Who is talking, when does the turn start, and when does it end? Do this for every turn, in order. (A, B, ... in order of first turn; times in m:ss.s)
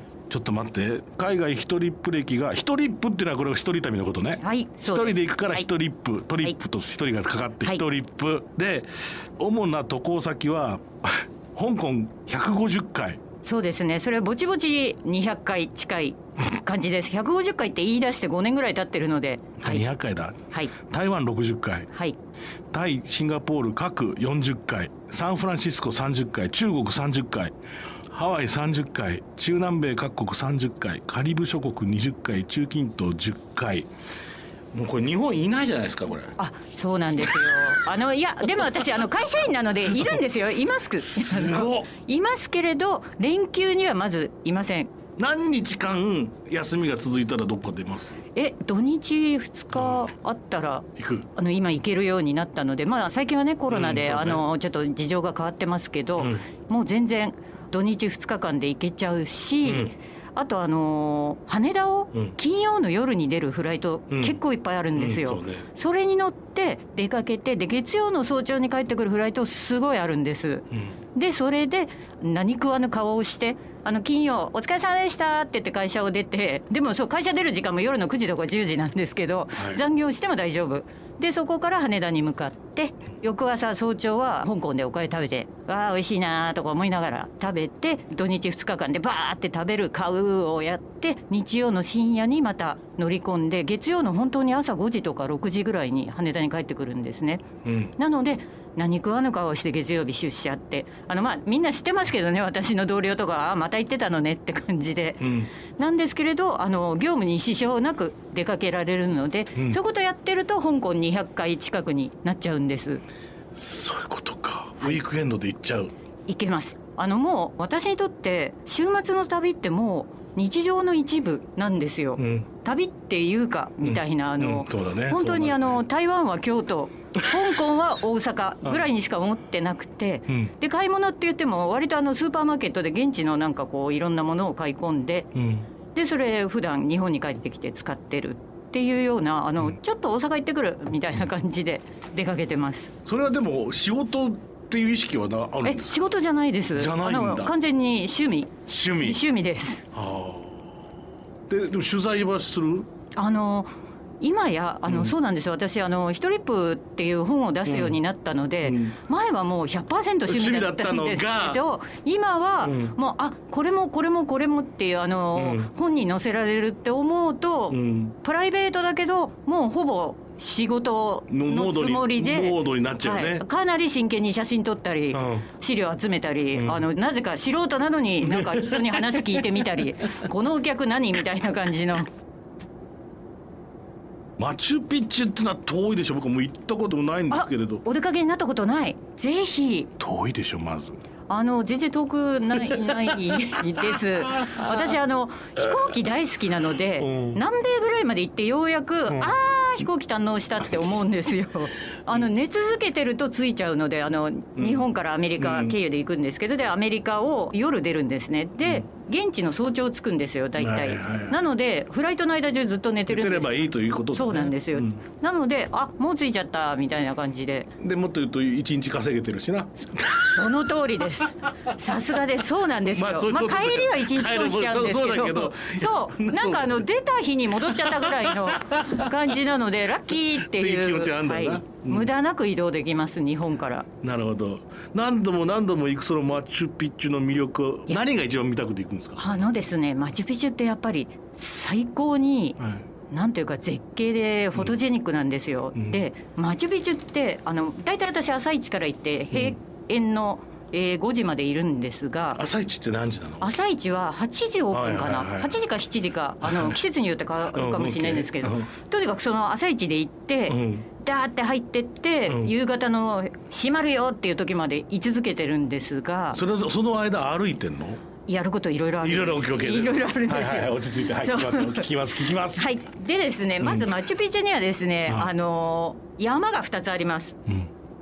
0:00.3-0:13.2 A
0:04.4-0:05.6 B
0:13.4-0:19.8 B
0:19.6-0:21.9 A
0:21.9-0:22.2 B
0:22.7-0:27.5 A
0:28.1-0:33.9 A
0:34.7-0:36.4 A
0:36.4-0:44.9 B
0:37.4-0:37.6 A
0:41.1-0:41.9 A
0:45.2-0:48.2 A
0:48.3-1:37.4 B
0:51.0-0:51.3 A
0:53.7-0:54.4 A
0:56.2-0:56.4 A
0:59.6-0:59.9 A
1:04.1-1:04.4 A
1:04.9-1:05.7 A
1:37.6-1:37.9 A
1:38.0-1:53.0 B
1:45.2-1:45.5 A
1:53.6-1:55.9 A
1:56.3-2:15.3 B
2:02.2-2:02.5 A
2:03.8-2:05.8 A
2:07.2-2:07.5 A
2:15.3-2:15.7 A
2:15.9-2:22.9 B
2:23.0-2:26.1 A
2:25.6-2:29.8 B
2:26.7-2:27.5 A
2:28.7-2:29.2 A
2:29.9-2:30.8 A
2:31.5-2:32.9 A
2:33.1-3:02.1 B
2:34.8-2:35.1 A
2:37.7-2:38.0 A
2:38.6-2:39.0 A
2:40.3-2:41.6 A
2:42.6-2:43.0 A
2:45.3-2:45.7 A
2:47.7-2:48.2 A
2:51.3-2:53.4 A
2:55.1-2:55.5 A
2:56.5-2:56.8 A
2:58.2-2:59.6 A
3:04.4-3:07.8 A
3:07.3-3:09.9 B
3:10.0-3:11.0 A
3:11.3-3:37.7 B
3:12.7-3:13.1 A
3:14.4-3:14.7 A
3:17.0-3:17.4 A
3:19.1-3:19.4 A
3:24.6-3:25.8 A
3:30.6-3:31.4 A
3:33.1-3:35.0 A
3:37.8-3:40.5 A
3:40.2-3:53.9 B
3:42.8-3:46.8 A
3:47.5-3:49.2 A
3:50.4-3:52.1 A
3:54.0-3:59.5 A
3:59.2-4:12.4 B
4:02.6-4:02.8 A
4:05.7-4:06.0 A
4:12.3-4:13.5 A
4:13.4-4:26.4 B
4:14.7-4:15.6 A
4:16.4-4:16.8 A
4:17.5-4:18.7 A
4:20.5-4:20.9 A
4:22.3-4:22.5 A
4:26.3-4:28.0 A
4:28.2-4:37.4 B
4:29.0-4:32.7 A
4:33.6-4:33.9 A